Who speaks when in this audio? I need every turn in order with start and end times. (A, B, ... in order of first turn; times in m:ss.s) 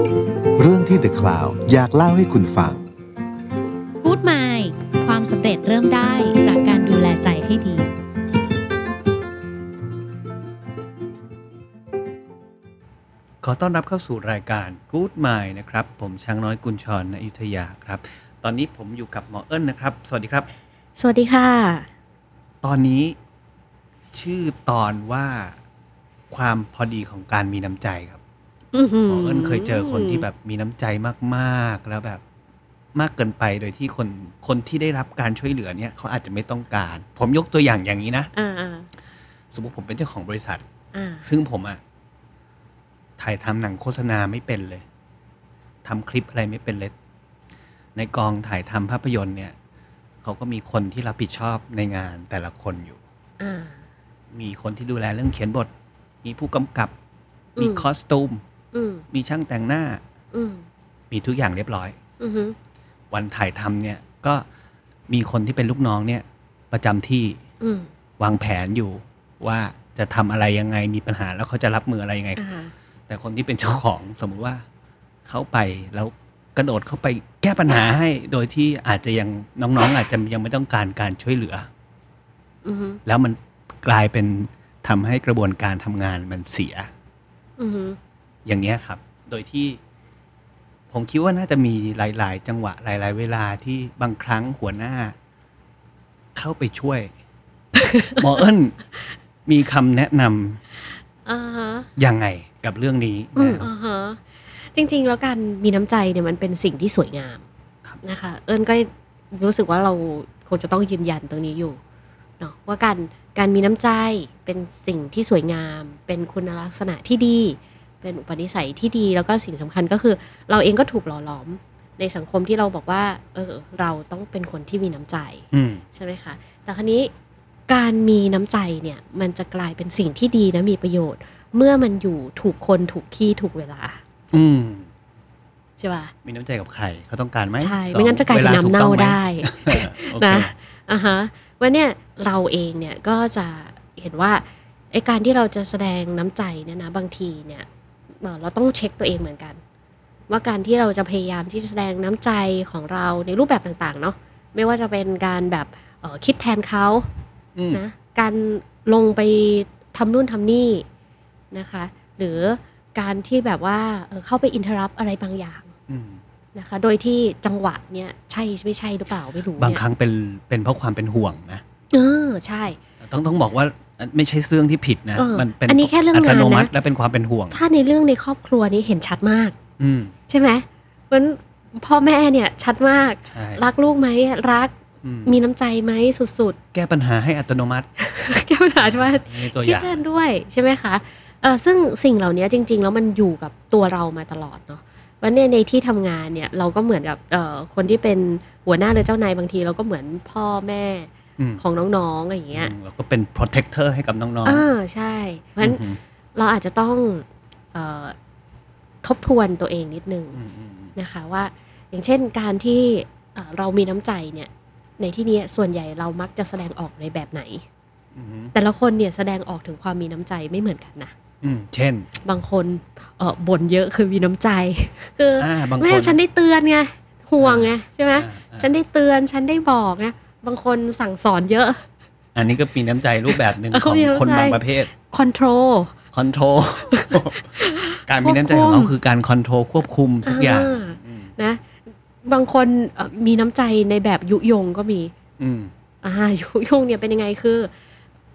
0:00.6-0:02.8 A
0:04.0-0:07.9 B
0:13.4-0:20.5 C
0:21.0-0:21.9 B
0:22.6-0:23.2 C
0:24.1-0:25.6 C
0:26.3-0:28.2 C
0:28.7-0:30.3 B
0:29.1-0:32.2 C
0:33.0-0:38.3 C
0:38.3-0:38.9 B
0:39.5-0:40.6 C
0:40.9-0:41.2 B
0:41.2-0:41.8 C
0:43.2-0:44.8 C
0:45.8-0:46.9 C
0:48.0-0:49.5 C
0:50.2-0:53.0 C
0:53.4-0:53.8 B
0:54.3-0:55.7 C
0:56.2-0:56.9 C
0:57.6-0:57.9 B
0:57.6-0:58.4 C
0:58.7-0:59.0 B
0:59.1-1:00.0 C
1:00.3-1:00.6 B
1:01.1-1:02.0 C
1:02.2-1:02.6 B
1:03.1-1:04.4 C
1:05.1-1:07.4 C
1:07.6-1:07.9 B
1:08.2-1:12.4 C
1:12.4-1:12.7 B
1:13.1-1:14.6 C
1:15.3-1:21.7 C
1:22.6-1:23.0 B
1:23.1-1:26.9 C
1:27.6-1:28.0 B
1:28.5-1:29.8 C
1:30.9-1:35.2 C
1:36.4-1:37.1 C
1:37.8-1:38.2 B
1:38.2-1:40.6 C
1:41.2-1:41.9 B
1:42.0-1:43.7 C
1:43.4-1:47.4 B
1:48.0-1:51.8 B
1:52.4-2:07.1 B
2:05.5-2:05.8 C
2:07.7-2:14.0 B
2:14.3-2:14.9 C
2:15.8-2:16.1 B
2:16.2-2:20.5 C
2:17.6-2:27.7 B
2:28.2-2:29.6 B
2:30.3-2:37.1 B
2:37.6-2:37.8 C
2:37.7-2:40.9 B
2:41.5-2:45.7 B
2:45.9-2:46.2 C
2:46.6-2:49.8 B
2:49.6-2:51.6 C
2:51.9-2:52.8 B
2:53.0-2:57.6 C
2:55.2-2:56.7 B
2:57.5-2:59.6 B
2:59.8-3:00.1 C
3:00.3-3:04.7 B
3:03.3-3:03.6 C
3:05.0-3:05.4 C
3:05.3-3:06.6 B
3:06.7-3:07.9 C
3:08.0-3:22.7 B
3:08.8-3:10.0 C
3:22.5-3:24.7 C
3:24.4-3:25.8 B
3:25.6-3:26.0 C
3:26.4-3:28.2 B
3:29.0-3:30.4 B
3:30.3-3:31.0 C
3:31.0-3:37.7 B
3:38.2-3:38.5 C
3:38.5-3:41.1 B
3:41.4-3:42.1 C
3:42.2-3:51.8 B
3:45.4-3:46.2 C
3:47.4-3:48.7 C
3:52.4-3:54.9 C
3:53.3-3:56.0 B
3:56.1-4:01.4 C
3:56.9-3:58.9 B
4:00.3-4:05.1 B
4:05.4-4:05.7 C
4:06.0-4:07.7 B